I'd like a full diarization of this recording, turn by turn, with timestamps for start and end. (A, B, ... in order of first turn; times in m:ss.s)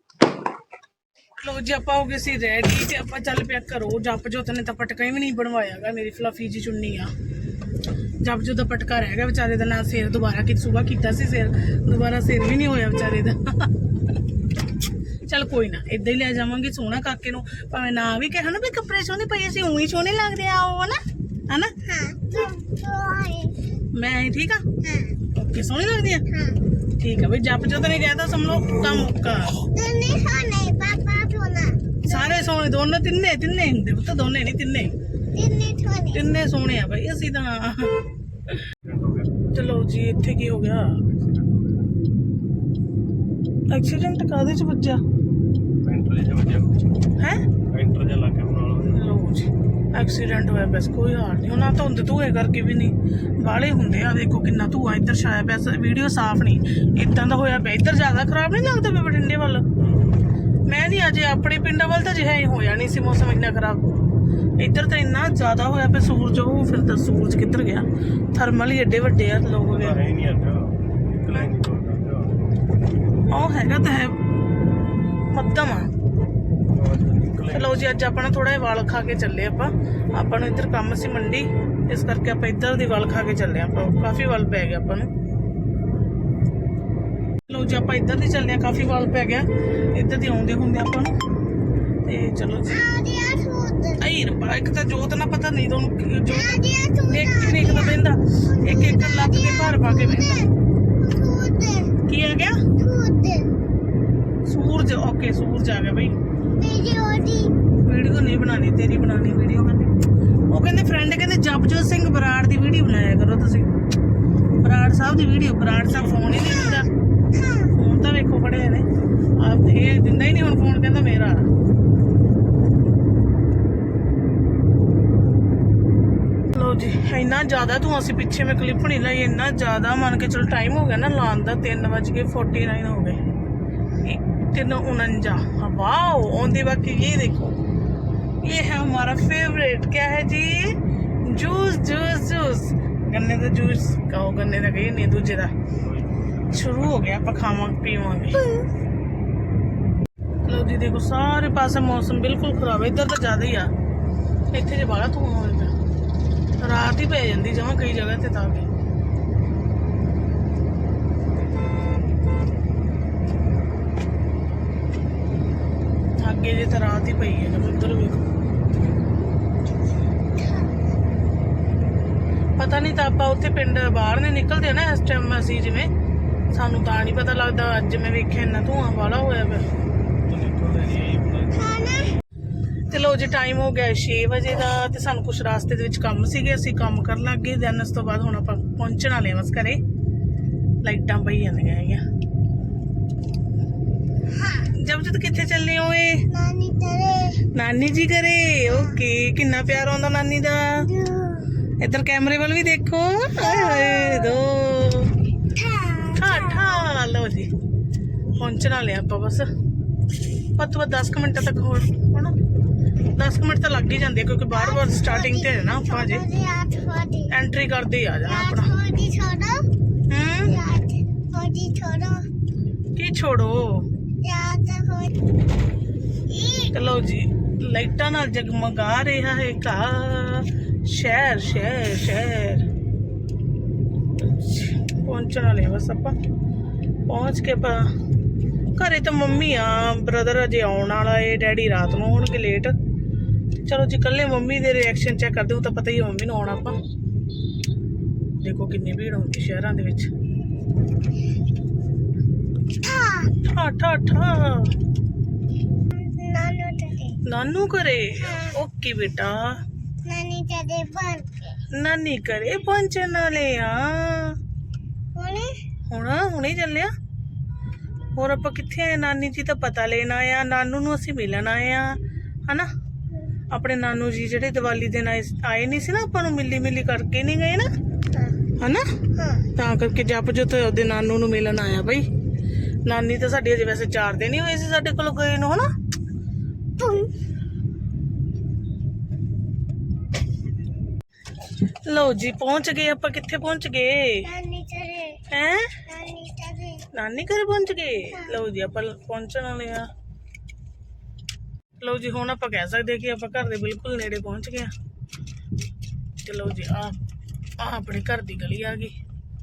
0:01.4-0:07.1 A
0:08.2-0:13.7 A
0:15.2-0:21.8 A
0:21.8-0:23.6 B
0:23.9-0:24.7 A
0:24.8-0:25.3 B
0:25.3-0:26.3 A
0:26.3-0:26.6 B
0:26.8-0:29.6 A
0:29.6-0:32.4 B
0:32.1-0:34.9 A
0:35.3-0:36.2 B
0:36.1-0:38.6 A
0:38.8-0:39.4 C
0:39.5-0:41.0 A
0:43.7-0:45.0 A
0:45.8-0:46.8 C
0:47.2-0:47.4 A
0:47.7-0:49.1 C
0:48.9-0:59.7 A
0:59.8-1:00.2 C
1:00.7-1:10.0 A
1:09.6-1:12.4 C
1:13.3-1:14.2 A
1:15.3-1:15.9 A
1:16.7-1:17.9 C
1:17.5-1:25.1 A
1:27.5-1:31.2 A
1:32.0-1:32.8 A
1:32.7-1:34.0 B
1:34.0-1:40.5 A
1:36.3-1:42.0 B
1:42.1-1:42.6 A
1:42.8-1:43.5 B
1:44.4-1:46.2 A
1:46.5-1:47.6 B
1:47.8-1:53.7 A
1:54.6-1:56.9 A
1:56.5-1:57.7 B
1:57.7-1:58.9 A
1:59.4-2:01.5 A
2:06.5-2:13.2 A
2:14.0-2:17.6 A
2:18.4-2:25.6 A
2:25.8-2:27.2 C
2:26.5-2:28.5 A
2:28.4-2:28.7 B
2:30.4-2:33.7 A
2:34.5-2:35.7 A
2:36.6-2:38.7 A
2:46.2-2:48.2 A
2:50.4-2:50.7 B
2:52.6-2:55.9 A
2:56.5-2:59.7 A
3:00.2-3:01.9 C
3:01.5-3:02.2 B
3:02.9-3:09.8 A
3:10.8-3:12.0 A
3:14.3-3:14.7 B
3:14.7-3:16.3 A
3:16.3-3:17.5 B
3:17.5-3:20.9 A
3:18.7-3:19.0 B
3:20.8-3:21.6 B
3:21.8-3:25.2 A
3:23.3-3:24.4 B
3:25.4-3:27.0 B
3:26.2-3:27.5 A
3:28.3-3:29.5 A
3:30.5-3:32.4 A
3:33.1-3:36.2 A
3:34.5-3:37.3 B
3:37.3-3:38.8 A
3:38.3-3:39.7 B
3:40.1-3:40.6 A
3:40.4-3:42.3 B
3:43.0-3:43.9 A
3:44.2-3:45.3 B
3:46.3-3:46.7 B
3:46.7-3:52.7 A
3:54.2-3:56.2 A
3:57.1-3:57.9 A
3:58.7-4:02.8 A
4:03.6-4:06.8 A
4:08.4-4:10.1 A
4:12.8-4:13.4 B
4:13.4-4:14.7 A
4:15.9-4:17.2 B
4:17.2-4:19.6 A
4:18.2-4:18.6 B
4:20.0-4:21.6 B
4:21.7-4:24.4 A
4:25.1-4:25.6 B
4:25.9-4:26.9 A
4:28.2-4:32.7 A
4:33.5-4:37.7 A
4:38.6-4:42.1 A
4:39.2-4:39.5 B
4:42.8-4:45.7 A
4:46.8-4:47.1 B
4:51.8-4:54.3 A
4:54.2-4:55.2 B
4:55.3-4:55.8 A
4:55.9-4:56.9 B
4:56.9-4:59.9 A
5:01.8-5:04.7 A
5:06.2-5:07.0 A
5:07.6-5:09.0 A